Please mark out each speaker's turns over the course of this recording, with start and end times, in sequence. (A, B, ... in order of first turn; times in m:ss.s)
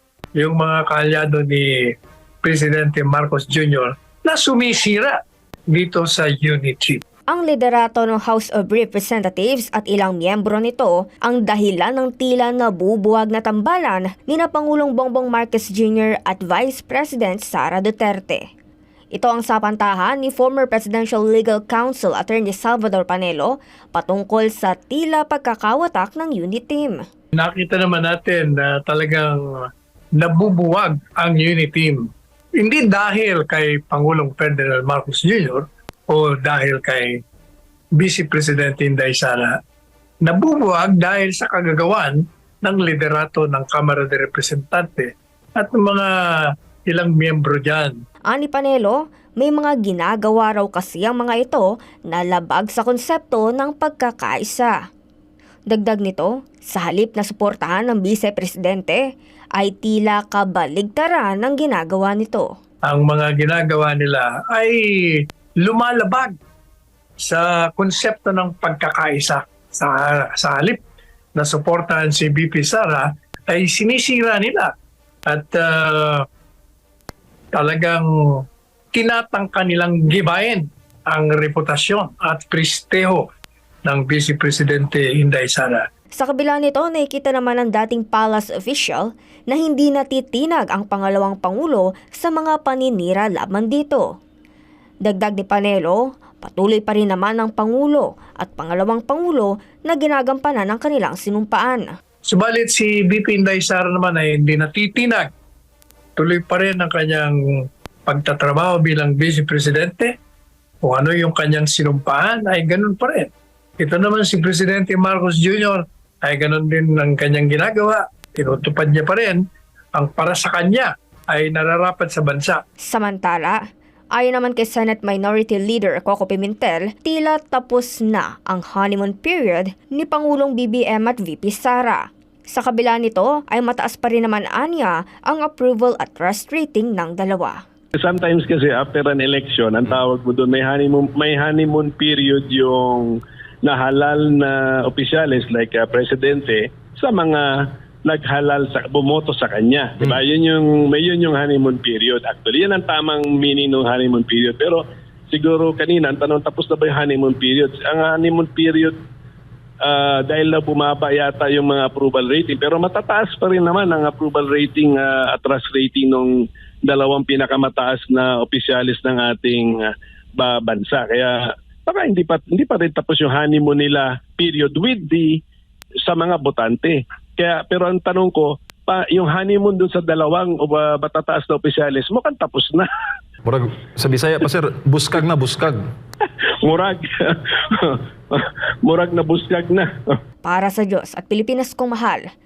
0:00.4-0:01.7 A
0:02.4-0:05.2 A
0:05.7-0:07.0 A
0:07.3-0:18.5 B
0:19.1-0:27.0 B
0:27.4-0:29.7 A
0:30.2-0:37.2 A
0:37.9-0:39.6 A
0:40.2-0:47.9 A
0:48.3-0:54.7 B
0:55.7-0:59.0 B
0:59.6-1:02.5 B
1:02.8-1:06.4 A
1:07.2-1:10.8 A
1:11.3-1:14.7 A
1:15.3-1:16.2 A
1:17.5-1:23.3 A
1:23.8-1:25.8 A
1:26.2-1:34.2 B
1:35.0-1:41.9 B
1:42.3-1:45.3 A
1:46.2-1:50.1 A
1:50.8-1:59.4 A
1:59.9-2:02.6 A
2:02.9-2:03.6 B
2:04.1-2:17.6 B
2:18.0-2:39.0 C
2:39.8-2:55.4 C
2:56.0-3:02.9 C
3:03.4-3:05.8 D
3:06.2-3:10.2 C
3:10.4-3:12.2 B